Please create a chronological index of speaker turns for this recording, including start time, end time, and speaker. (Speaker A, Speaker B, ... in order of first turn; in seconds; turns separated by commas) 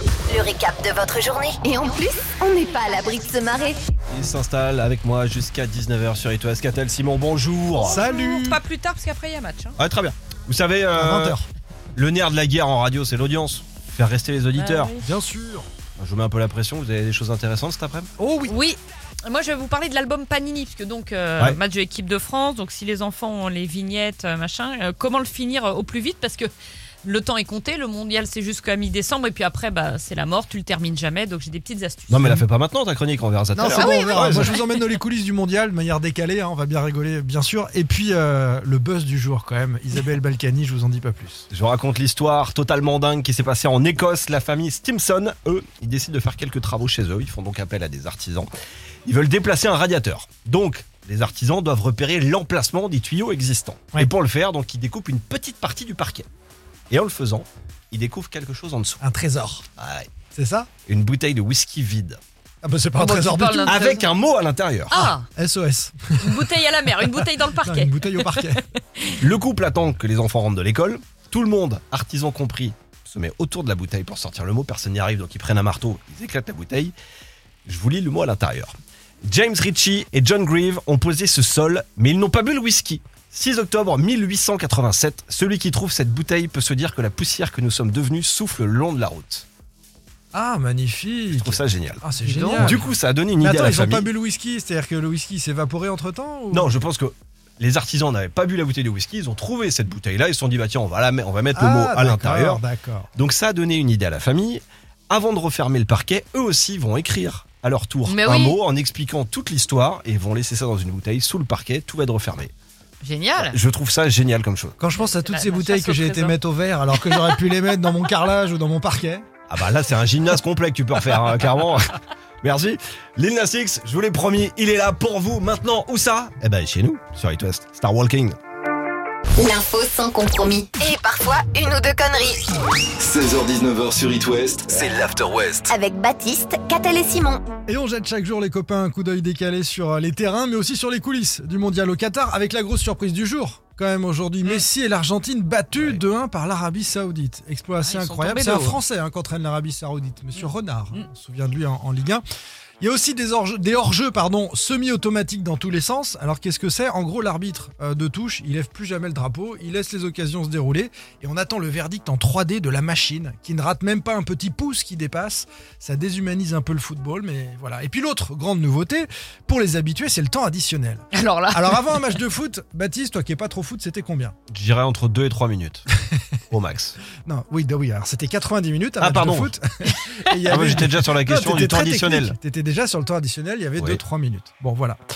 Speaker A: 0.3-3.8, Speaker B: 4.1-8.0, Speaker C: 7.8-8.6, Speaker D: 7.8-9.8, Speaker B: 9.8-11.4, Speaker C: 10.9-11.5, Speaker B: 11.9-14.9, Speaker D: 14.6-15.1, Speaker C: 15.0-15.7, Speaker B: 16.0-18.1, Speaker C: 18.2-18.6, Speaker D: 18.5-26.5, Speaker D: 27.0-32.4, Speaker B: 32.1-34.6, Speaker C: 33.5-41.5, Speaker D: 33.8-34.8, Speaker B: 41.5-48.5, Speaker B: 49.1-56.3, Speaker B: 56.9-59.0, Speaker C: 59.0-59.6, Speaker B: 59.8-60.1, Speaker C: 60.3-60.7, Speaker B: 60.9-62.2, Speaker C: 62.6-63.8, Speaker D: 63.0-64.1, Speaker B: 63.7-65.0, Speaker D: 64.9-65.3, Speaker C: 65.0-68.6, Speaker D: 66.2-69.2, Speaker B: 69.2-76.9, Speaker B: 77.7-78.7, Speaker B: 79.3-89.5, Speaker C: 90.3-96.8, Speaker B: 91.3-92.0, Speaker D: 92.2-92.8, Speaker B: 92.6-94.1, Speaker B: 96.5-102.6, Speaker C: 101.5-103.1, Speaker B: 103.2-112.5, Speaker D: 108.1-108.6, Speaker D: 113.0-113.6, Speaker B: 113.4-114.8, Speaker C: 114.8-119.3, Speaker D: 115.0-116.4, Speaker D: 116.9-117.2, Speaker B: 119.5-128.4, Speaker A: 129.4-132.5, Speaker E: 133.0-135.7, Speaker A: 135.7-137.4, Speaker C: 137.7-152.2, Speaker B: 145.8-146.0, Speaker D: 147.8-148.8, Speaker D: 150.3-151.1, Speaker C: 152.8-174.3, Speaker D: 171.1-172.1, Speaker B: 174.5-175.8, Speaker B: 176.5-177.0, Speaker C: 177.2-185.0, Speaker B: 179.0-179.6, Speaker B: 180.5-182.4